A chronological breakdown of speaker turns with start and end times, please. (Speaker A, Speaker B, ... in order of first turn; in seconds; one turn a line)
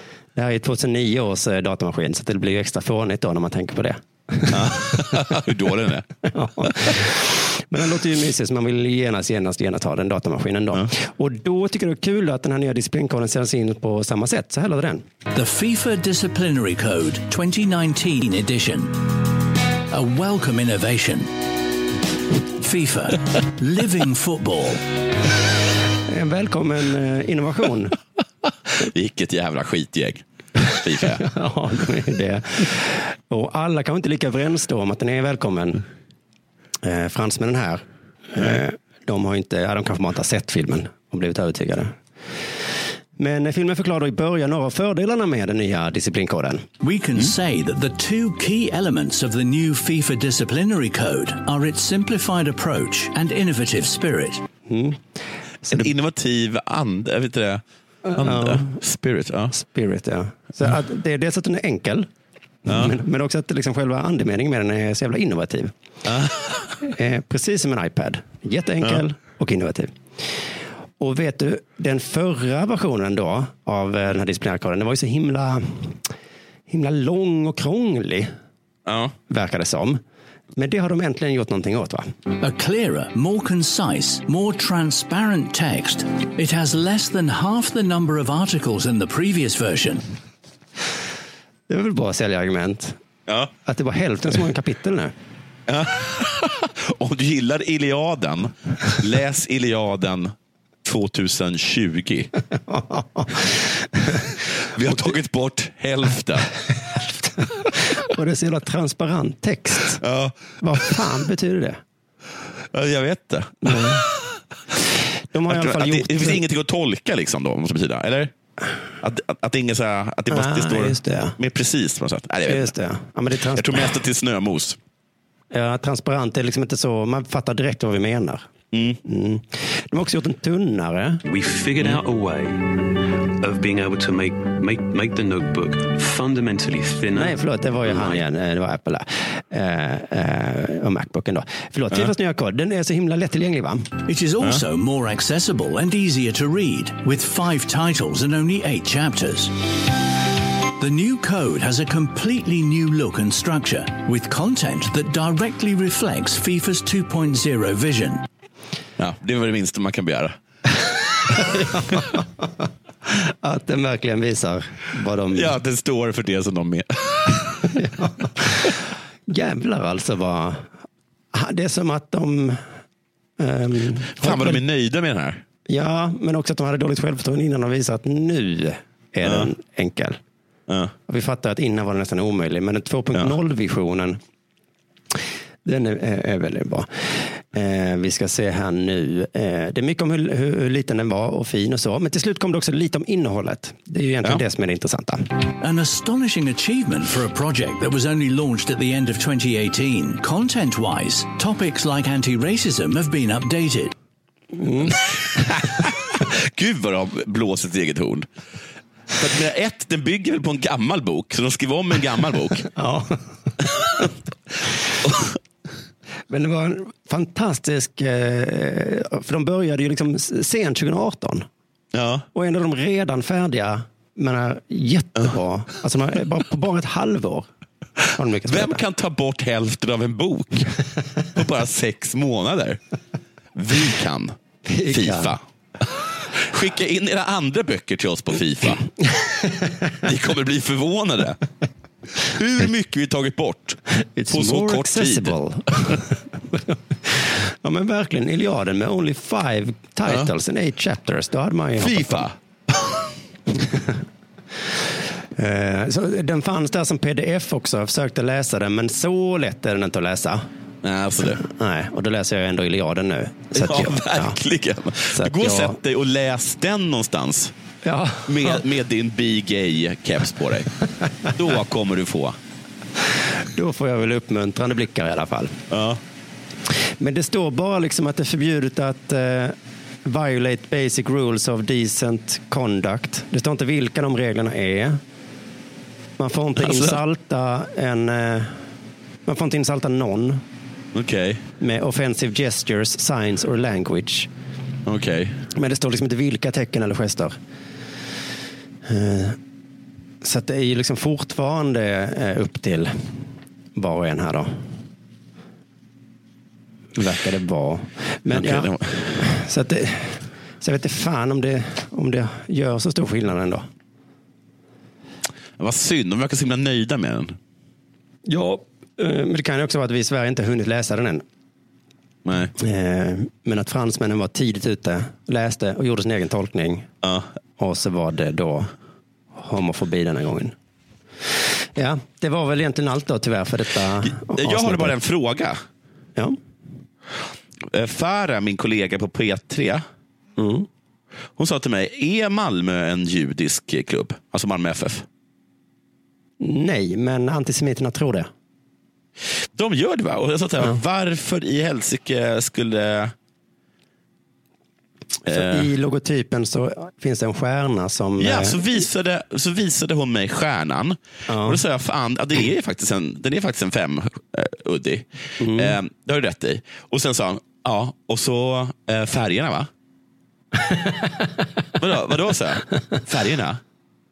Speaker A: 0.3-5.3
Speaker B: 4.5-6.1
Speaker A: 6.2-15.0
Speaker B: 6.6-7.0
Speaker C: 15.3-19.0
Speaker C: 19.9-21.3
Speaker C: 22.6-24.8
Speaker A: 26.1-27.9
Speaker B: 28.8-31.2
Speaker A: 31.2-35.8
Speaker A: 36.8-42.0
Speaker A: 43.2-46.6
Speaker C: 46.8-54.4
Speaker A: 54.7-55.0
Speaker A: 55.6-55.9
Speaker B: 55.7-59.5
Speaker A: 58.1-58.8
Speaker A: 59.5-62.1
Speaker A: 62.6-65.7
Speaker B: 62.7-62.9
Speaker B: 66.0-66.7
Speaker A: 66.8-70.3
Speaker A: 71.0-76.0
Speaker A: 76.7-78.3
Speaker B: 78.8-79.1
Speaker A: 79.3-80.0
Speaker A: 80.5-82.1
Speaker C: 82.4-90.0
Speaker A: 91.7-93.0
Speaker A: 93.6-95.1
Speaker B: 95.7-102.3
Speaker A: 102.7-104.3
Speaker B: 104.7-106.5
Speaker A: 107.4-110.0
Speaker B: 110.0-110.6
Speaker A: 110.6-111.8
Speaker B: 112.7-114.2
Speaker A: 113.6-114.0
Speaker A: 115.3-116.4
Speaker B: 115.5-118.3
Speaker B: 119.0-122.7
Speaker A: 120.3-121.4
Speaker A: 122.5-124.0
Speaker B: 123.5-124.8
Speaker A: 125.5-128.5
Speaker B: 128.7-129.0
Speaker A: 129.0-131.2
Speaker D: 131.3-132.7
Speaker D: 133.4-138.2
Speaker A: 137.1-143.9
Speaker C: 144.1-149.5
Speaker C: 150.8-158.2
Speaker B: 159.0-160.4
Speaker A: 161.3-162.2
Speaker B: 161.4-162.0
Speaker A: 163.1-165.5
Speaker B: 165.3-167.7
Speaker A: 167.7-168.8
Speaker A: 169.3-170.7
Speaker A: 171.3-172.6
Speaker A: 173.4-174.6
Speaker B: 174.2-175.4
Speaker A: 175.7-180.2
Speaker B: 179.2-179.5
Speaker B: 180.7-180.9
Speaker A: 181.1-184.2
Speaker A: 185.6-195.2
Speaker C: 195.6-203.9
Speaker A: 204.5-205.5
Speaker B: 205.3-208.3
Speaker B: 209.2-212.7
Speaker A: 212.7-213.2
Speaker B: 215.0-215.3
Speaker A: 216.3-221.5
Speaker B: 221.9-222.3
Speaker A: 222.3-227.5
Speaker A: 228.1-228.8
Speaker B: 228.5-230.7
Speaker B: 231.3-232.8
Speaker B: 233.5-235.4
Speaker A: 234.7-235.3
Speaker B: 236.3-238.8
Speaker A: 239.0-239.9
Speaker B: 240.0-241.4
Speaker B: 242.2-245.3
Speaker A: 244.2-252.2
Speaker B: 251.8-253.1
Speaker A: 253.6-253.9
Speaker A: 255.3-260.4
Speaker B: 260.8-261.4
Speaker A: 261.2-264.4
Speaker B: 263.5-267.5
Speaker A: 265.1-265.8
Speaker A: 267.8-268.6
Speaker B: 268.2-270.7
Speaker B: 271.2-272.4
Speaker A: 273.4-275.6
Speaker B: 275.7-276.0
Speaker A: 277.0-285.0
Speaker A: 286.2-288.6
Speaker B: 286.6-287.0
Speaker A: 289.2-290.4
Speaker B: 290.9-291.4
Speaker A: 291.6-294.3
Speaker B: 294.8-295.4
Speaker A: 295.5-297.4
Speaker A: 298.8-299.4
Speaker A: 300.2-304.7
Speaker A: 306.9-313.6
Speaker B: 308.3-309.2
Speaker B: 315.6-317.4
Speaker A: 318.2-321.2
Speaker B: 322.2-322.5
Speaker A: 322.6-326.9
Speaker B: 327.0-327.3
Speaker A: 327.6-328.7
Speaker A: 329.3-330.5
Speaker A: 331.7-334.9
Speaker B: 334.0-335.6
Speaker B: 337.7-339.8
Speaker A: 340.4-340.7
Speaker B: 341.4-345.1
Speaker A: 346.4-348.3
Speaker B: 349.5-353.1
Speaker A: 355.2-358.6
Speaker B: 355.3-355.7
Speaker B: 358.2-369.7
Speaker A: 361.3-361.6
Speaker A: 365.4-365.8
Speaker A: 370.6-371.0
Speaker B: 371.8-373.6